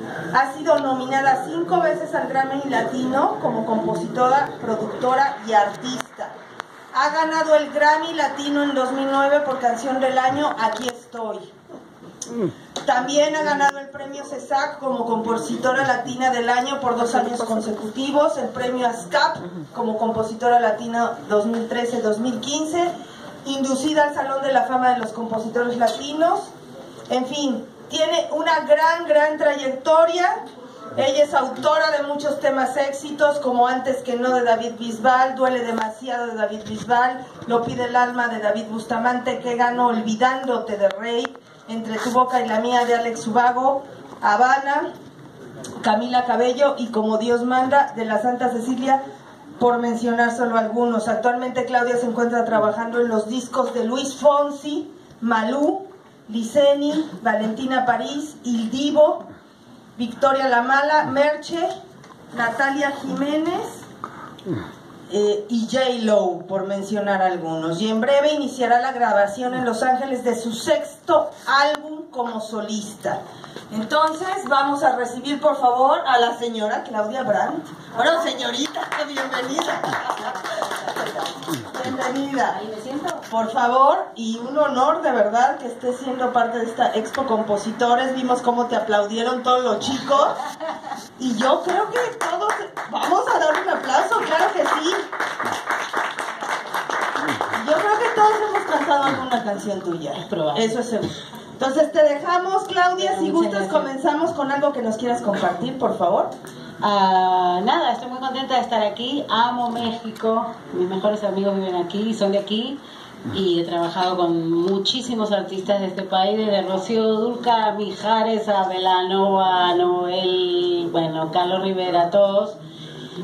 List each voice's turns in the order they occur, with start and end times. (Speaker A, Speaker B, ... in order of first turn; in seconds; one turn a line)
Speaker A: 0.3-6.3
Speaker A: 6.9-11.4
Speaker A: 12.8-22.9
Speaker A: 23.4-26.5
Speaker A: 27.1-30.3
Speaker A: 31.0-44.9
Speaker A: 45.8-49.0
Speaker A: 49.6-59.2
Speaker A: 60.0-61.7
Speaker A: 62.3-63.8
Speaker A: 65.1-73.2
Speaker A: 73.7-80.2
Speaker B: 80.7-81.1
Speaker A: 81.7-82.6
Speaker B: 82.5-83.3
Speaker A: 83.3-90.4
Speaker A: 91.2-95.0
Speaker A: 97.6-106.3
Speaker B: 100.1-100.8
Speaker B: 103.0-103.9
Speaker B: 106.8-112.8
Speaker B: 113.3-122.6